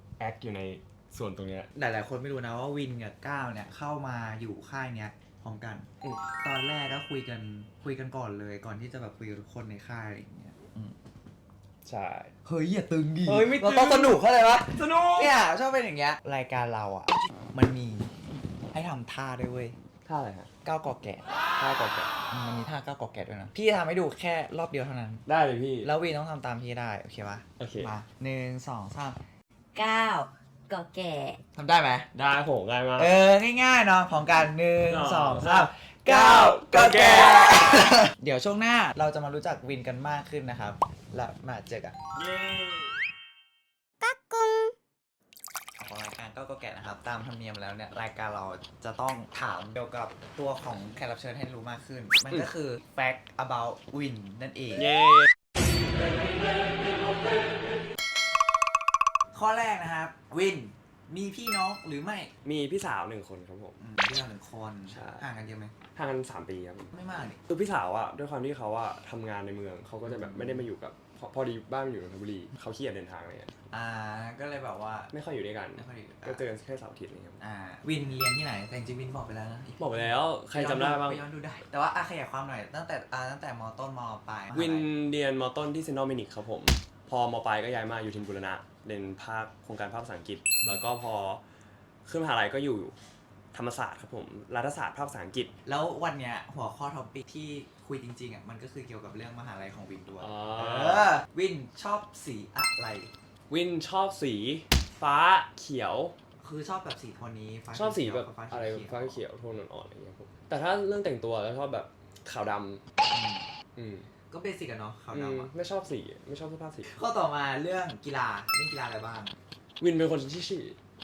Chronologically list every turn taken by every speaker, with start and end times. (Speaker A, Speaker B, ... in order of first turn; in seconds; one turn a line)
Speaker A: 0.2-1.7
Speaker B: 1.7-5.9
Speaker B: 6.4-10.9
Speaker A: 11.8-12.3
Speaker B: 12.4-19.8
Speaker A: 13.2-15.4
Speaker A: 20.1-20.5
Speaker B: 20.6-21.2
Speaker A: 21.6-22.1
Speaker B: 22.3-25.2
Speaker A: 25.2-25.9
Speaker B: 25.8-29.2
Speaker A: 27.6-27.9
Speaker C: 29.7-31.4
Speaker B: 31.5-32.1
Speaker A: 32.1-33.1
Speaker B: 33.0-42.0
Speaker A: 34.9-37.8
Speaker A: 42.1-43.0
Speaker C: 44.0-44.7
Speaker B: 45.8-54.9
Speaker A: 54.8-55.3
Speaker B: 59.3-62.3
Speaker A: 62.4-63.8
Speaker B: 63.8-65.7
Speaker A: 64.9-65.2
Speaker A: 65.9-66.9
Speaker B: 66.9-67.4
Speaker A: 67.5-73.7
Speaker B: 70.0-70.7
Speaker B: 73.7-75.1
Speaker A: 75.1-77.4
Speaker B: 75.7-76.4
Speaker B: 77.4-84.9
Speaker A: 79.8-81.2
Speaker A: 84.5-91.4
Speaker A: 92.0-92.9
Speaker A: 93.5-95.5
Speaker B: 95.7-103.1
Speaker A: 100.2-101.2
Speaker A: 103.5-106.1
Speaker B: 106.4-109.2
Speaker A: 107.7-112.8
Speaker B: 113.1-113.5
Speaker A: 113.8-114.1
Speaker B: 114.3-115.5
Speaker A: 115.1-116.9
Speaker B: 116.8-119.4
Speaker A: 119.8-120.8